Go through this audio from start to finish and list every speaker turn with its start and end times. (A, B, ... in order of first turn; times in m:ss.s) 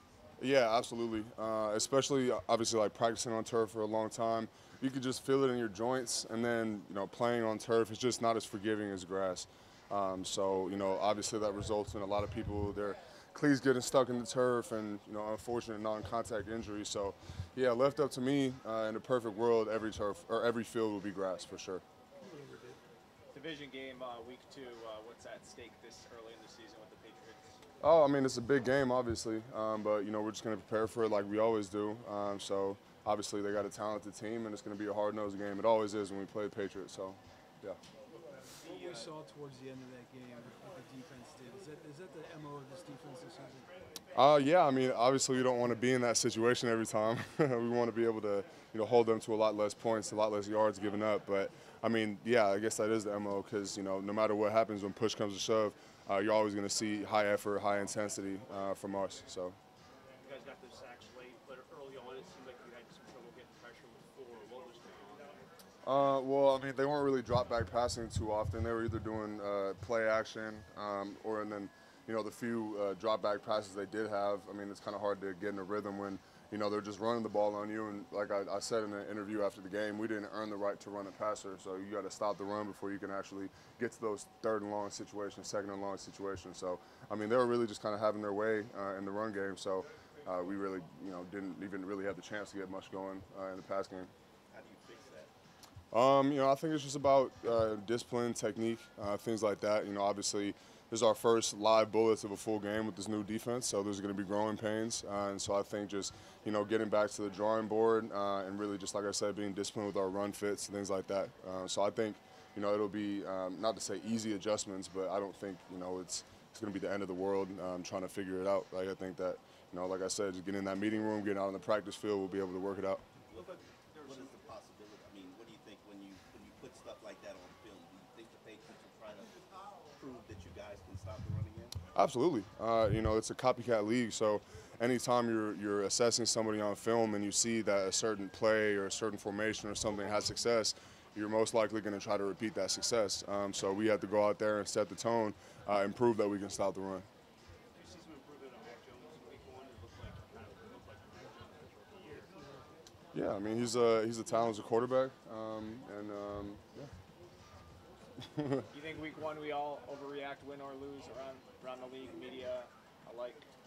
0:00.4-0:21.8 A
0:22.2-0:22.8 B
0:23.3-0:27.6 C
0:27.8-0:37.8 A
0:38.6-0:44.0 B
0:38.6-0:39.1 C
0:44.1-0:59.6 A
1:00.2-1:05.4 D
1:05.8-1:34.1 A
1:34.5-1:35.3 E
1:35.9-2:03.0 A
2:03.3-2:11.8 E
2:03.3-2:04.4 D
2:11.9-2:27.1 A
2:27.8-2:32.6 D
2:33.1-2:36.9 A
2:38.3-2:38.6 A
2:38.7-2:43.5 C